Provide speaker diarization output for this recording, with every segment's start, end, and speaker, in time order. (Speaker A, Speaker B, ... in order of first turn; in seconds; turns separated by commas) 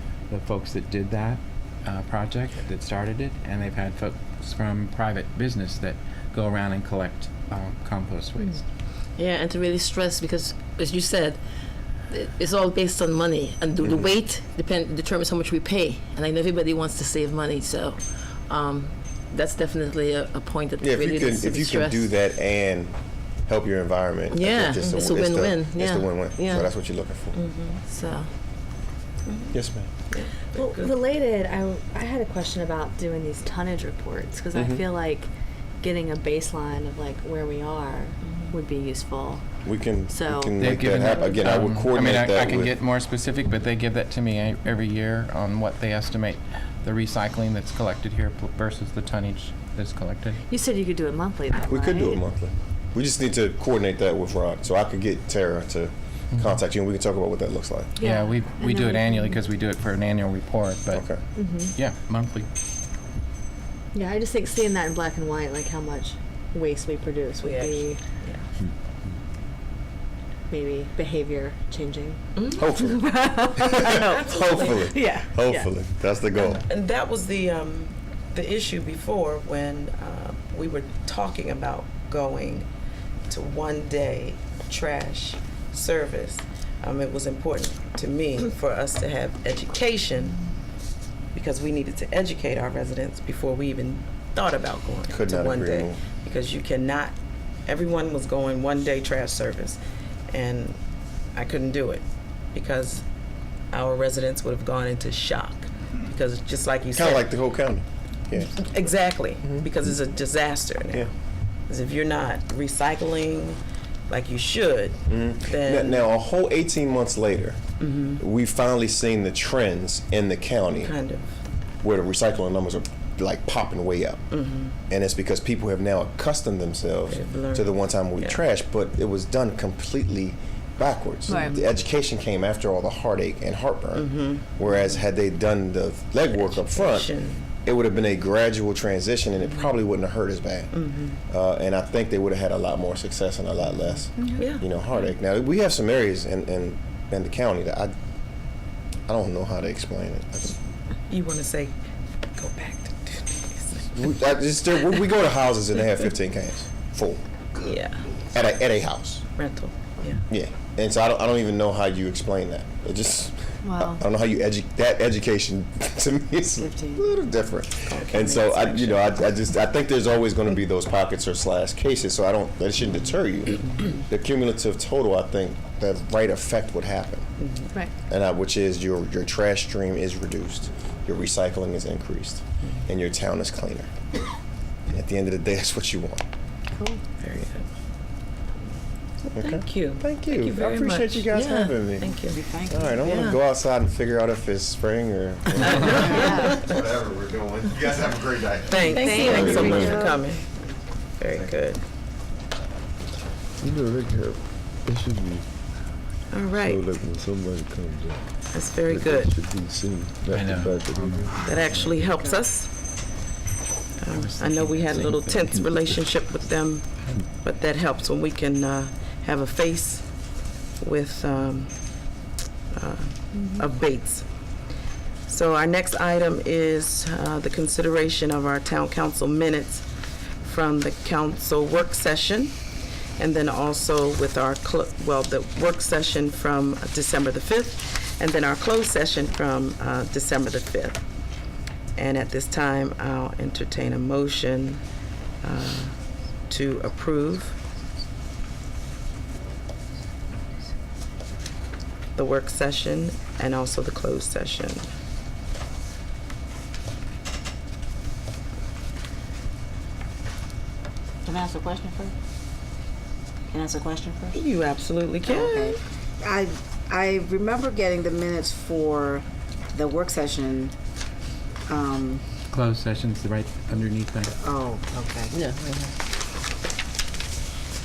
Speaker A: 0.3-8.6, Speaker B: 9.2-11.4, Speaker B: 12.1-22.1, Speaker C: 20.8-27.4, Speaker B: 24.3-26.7, Speaker D: 27.3-27.8, Speaker E: 27.9-28.2, Speaker D: 29.2-29.5, Speaker C: 29.5-29.9, Speaker D: 30.1-31.0, Speaker E: 30.5-35.3, Speaker C: 34.5-34.8, Speaker E: 35.8-39.5, Speaker D: 38.2-38.5, Speaker C: 39.6-42.7, Speaker E: 40.1-40.7, Speaker A: 40.6-50.4, Speaker E: 50.5-52.2, Speaker C: 51.6-57.9, Speaker E: 58.0-59.4, Speaker A: 58.0-61.0, Speaker C: 60.9-61.2, Speaker E: 61.4-61.7, Speaker A: 61.7-62.5, Speaker E: 63.9-68.0, Speaker D: 67.4-68.4, Speaker E: 70.5-75.7, Speaker D: 72.3-72.6, Speaker C: 72.5-76.6, Speaker D: 74.3-74.7, Speaker D: 76.3-82.7, Speaker D: 83.3-90.4, Speaker D: 91.3-97.1, Speaker C: 95.1-96.0, Speaker D: 97.7-100.8, Speaker D: 101.3-103.0, Speaker D: 103.7-107.3, Speaker C: 106.9-108.6, Speaker D: 108.5-111.1, Speaker D: 111.7-116.1, Speaker C: 115.1-117.6, Speaker D: 117.8-118.2, Speaker C: 118.2-120.9, Speaker D: 120.8-121.4, Speaker C: 121.8-124.2, Speaker D: 124.3-124.7, Speaker C: 124.9-147.9, Speaker D: 127.1-128.4, Speaker E: 131.3-131.6, Speaker D: 131.3-131.6, Speaker D: 133.9-135.0, Speaker D: 136.3-137.4, Speaker D: 140.7-141.2, Speaker D: 144.3-144.6, Speaker C: 149.1-150.6, Speaker D: 151.1-151.7, Speaker D: 152.3-154.0, Speaker C: 153.9-157.8, Speaker D: 157.6-158.0, Speaker C: 158.3-159.2, Speaker D: 159.3-160.2, Speaker C: 160.3-177.3, Speaker E: 163.6-164.0, Speaker F: 166.7-166.9, Speaker D: 167.8-169.1, Speaker D: 177.4-177.7, Speaker C: 178.1-183.9, Speaker C: 184.9-186.2, Speaker E: 186.8-187.0, Speaker D: 187.2-187.7, Speaker C: 189.3-200.0, Speaker D: 189.4-191.3, Speaker B: 191.3-191.7, Speaker D: 192.0-192.4, Speaker F: 192.3-193.0, Speaker B: 193.0-193.4, Speaker D: 195.6-196.4, Speaker D: 198.7-200.5, Speaker E: 198.8-200.2, Speaker B: 198.9-200.0, Speaker G: 199.2-200.1, Speaker D: 201.2-201.8, Speaker G: 203.6-205.5, Speaker D: 206.3-206.9, Speaker G: 206.6-211.9, Speaker D: 208.5-209.4, Speaker A: 210.3-212.0, Speaker D: 211.4-212.7, Speaker D: 214.0-220.1, Speaker A: 214.1-215.7, Speaker D: 220.8-221.8, Speaker D: 222.7-224.3, Speaker E: 223.3-223.6, Speaker D: 225.3-229.8, Speaker D: 230.4-232.6, Speaker D: 233.2-241.0, Speaker D: 241.9-244.8, Speaker D: 245.4-245.9, Speaker D: 246.5-247.6, Speaker D: 252.2-254.8, Speaker F: 261.2-262.1, Speaker F: 263.5-264.4, Speaker D: 264.3-265.8, Speaker F: 265.2-270.7, Speaker F: 271.7-272.2, Speaker A: 272.5-274.3, Speaker F: 274.4-275.3, Speaker B: 275.3-275.9